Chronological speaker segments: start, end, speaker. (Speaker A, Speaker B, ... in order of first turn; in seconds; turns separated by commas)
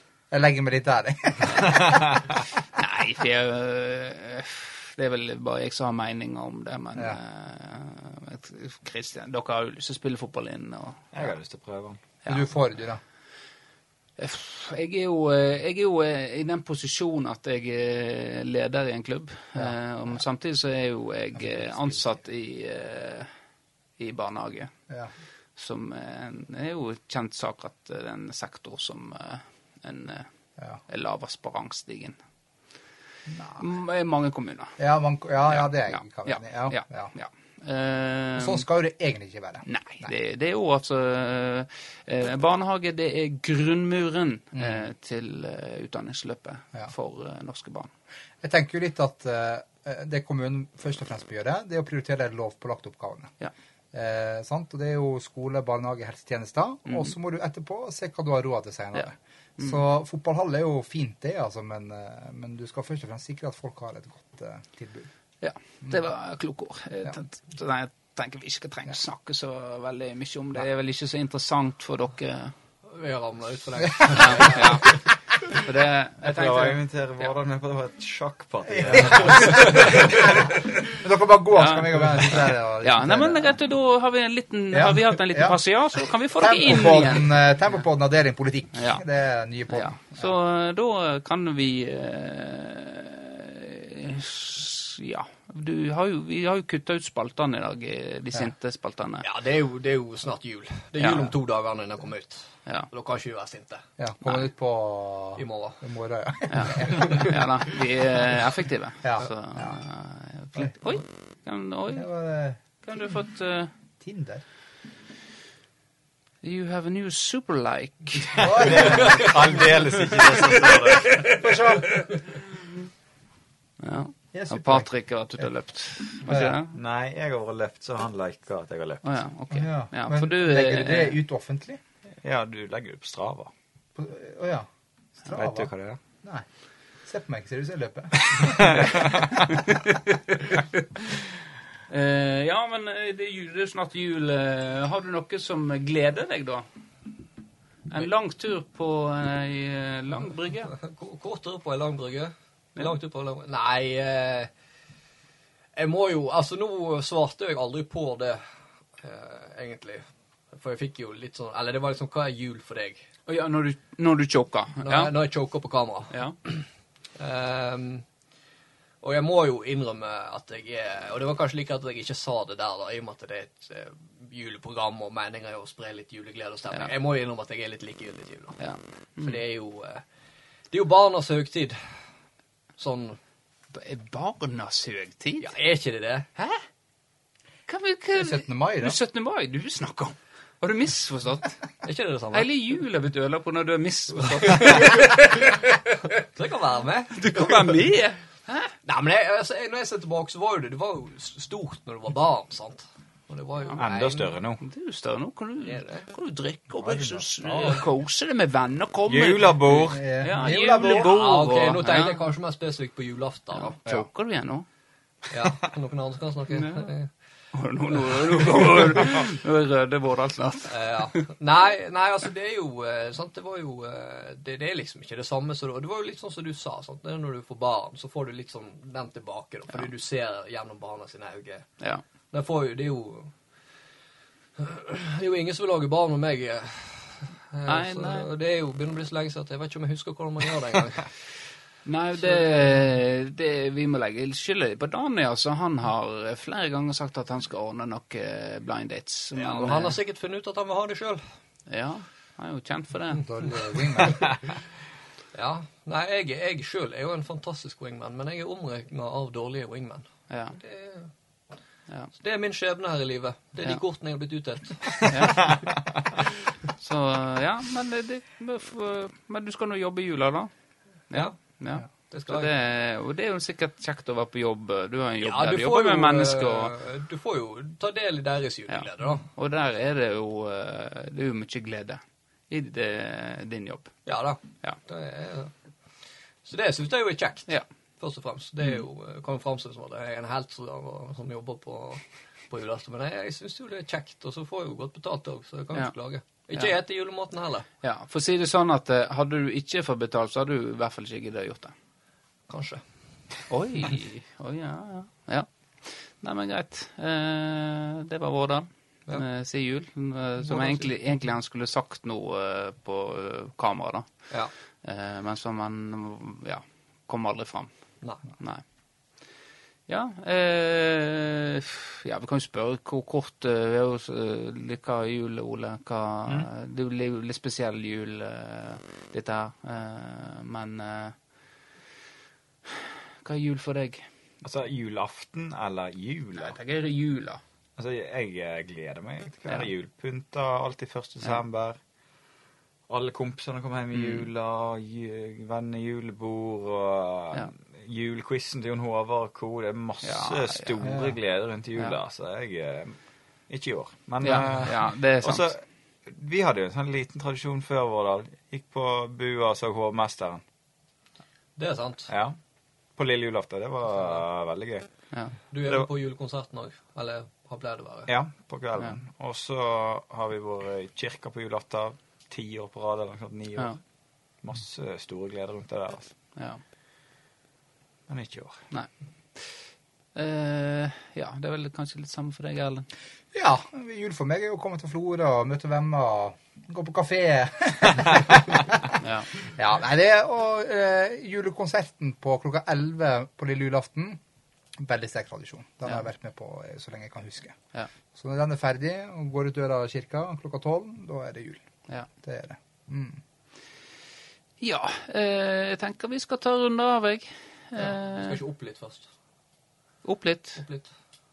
Speaker A: 0.3-2.2, Speaker B: 2.8-11.1, Speaker C: 11.1-12.0, Speaker A: 12.2-13.0, Speaker B: 14.2-23.3, Speaker B: 24.0-24.7, Speaker B: 25.6-30.3, Speaker B: 30.9-32.2, Speaker A: 33.3-33.6, Speaker B: 33.5-34.8, Speaker A: 34.8-37.1, Speaker B: 35.5-38.6, Speaker A: 38.4-40.1, Speaker B: 39.6-47.9, Speaker A: 48.4-53.3, Speaker A: 53.9-65.1, Speaker B: 65.4-72.5, Speaker D: 72.8-75.0, Speaker B: 74.1-76.8, Speaker C: 76.2-80.5, Speaker A: 78.7-83.6, Speaker B: 81.5-87.3, Speaker A: 84.7-85.6, Speaker A: 86.3-90.3, Speaker B: 88.7-89.0, Speaker B: 89.7-99.2, Speaker D: 99.2-103.8, Speaker B: 101.0-101.3, Speaker A: 104.0-107.3, Speaker D: 105.3-105.8, Speaker B: 106.5-112.1, Speaker D: 106.8-107.2, Speaker A: 109.0-109.8, Speaker A: 111.9-112.6, Speaker B: 112.8-113.7, Speaker A: 114.0-114.4, Speaker B: 116.4-118.7, Speaker A: 118.3-119.3, Speaker C: 118.3-121.3, Speaker A: 121.3-122.0, Speaker D: 121.9-122.2, Speaker B: 123.8-126.7, Speaker A: 124.3-124.9, Speaker A: 126.2-126.5, Speaker C: 126.7-129.0, Speaker B: 129.0-131.2, Speaker A: 129.5-131.8, Speaker C: 132.2-133.5, Speaker A: 133.9-134.7, Speaker A: 135.2-135.7, Speaker C: 135.3-136.0, Speaker A: 137.0-139.1, Speaker C: 138.7-139.3, Speaker B: 139.6-141.2, Speaker B: 141.9-146.7, Speaker B: 147.9-150.7, Speaker D: 150.7-154.5, Speaker D: 155.8-158.4, Speaker D: 159.0-163.1, Speaker B: 163.3-165.1, Speaker D: 164.8-166.7, Speaker B: 166.1-166.3, Speaker D: 167.2-168.0, Speaker D: 169.0-178.6, Speaker B: 178.6-179.4, Speaker D: 179.2-180.0, Speaker D: 180.7-181.8, Speaker D: 182.8-183.2, Speaker B: 183.7-185.5, Speaker D: 185.4-186.3, Speaker B: 186.3-186.6, Speaker B: 187.7-191.6, Speaker A: 188.2-189.0, Speaker D: 191.8-192.5, Speaker B: 192.3-195.9, Speaker D: 194.3-195.2, Speaker D: 196.2-197.7, Speaker B: 197.1-198.7, Speaker D: 198.8-204.3, Speaker C: 203.7-204.6, Speaker B: 204.6-212.2, Speaker D: 205.6-206.1, Speaker D: 207.4-207.8, Speaker C: 209.1-210.0, Speaker A: 209.8-211.1, Speaker D: 210.9-213.8, Speaker B: 213.6-214.7, Speaker D: 215.3-217.1, Speaker B: 216.5-216.9, Speaker B: 217.5-220.7, Speaker D: 217.9-218.8, Speaker D: 220.7-231.7, Speaker D: 232.3-233.3, Speaker D: 234.6-241.1, Speaker B: 237.7-238.3, Speaker B: 241.8-250.0, Speaker D: 249.3-251.2, Speaker B: 251.7-253.2, Speaker A: 253.2-254.3, Speaker D: 255.3-261.1, Speaker B: 260.3-260.5, Speaker D: 262.2-265.4, Speaker B: 265.1-265.6, Speaker B: 266.8-270.5, Speaker B: 271.1-276.7, Speaker D: 272.1-272.5, Speaker D: 275.2-279.2, Speaker B: 278.7-283.9, Speaker D: 284.1-285.5, Speaker D: 286.4-297.6, Speaker B: 297.8-301.7, Speaker D: 302.5-302.8, Speaker B: 303.5-314.1, Speaker D: 310.5-310.9, Speaker B: 314.8-317.7, Speaker B: 318.3-318.6, Speaker B: 319.9-331.1, Speaker B: 332.7-334.0, Speaker C: 334.4-336.6, Speaker B: 336.4-337.4, Speaker C: 337.8-341.8, Speaker C: 342.9-352.9, Speaker B: 343.9-344.2, Speaker B: 350.0-350.7, Speaker A: 350.8-351.1, Speaker C: 353.5-360.4, Speaker B: 354.2-355.5, Speaker D: 361.6-362.1, Speaker C: 362.1-362.4, Speaker C: 362.9-364.9, Speaker D: 365.5-368.1, Speaker C: 368.1-373.8, Speaker C: 374.4-376.1, Speaker B: 376.4-376.6, Speaker C: 378.1-378.6, Speaker B: 378.7-379.6, Speaker B: 380.1-382.9, Speaker A: 383.3-388.9, Speaker B: 389.0-389.3, Speaker A: 389.5-394.2, Speaker A: 394.8-397.6, Speaker A: 398.1-401.6, Speaker A: 402.2-403.2, Speaker B: 404.6-408.4, Speaker D: 407.8-409.1, Speaker B: 410.0-410.6, Speaker D: 410.6-410.9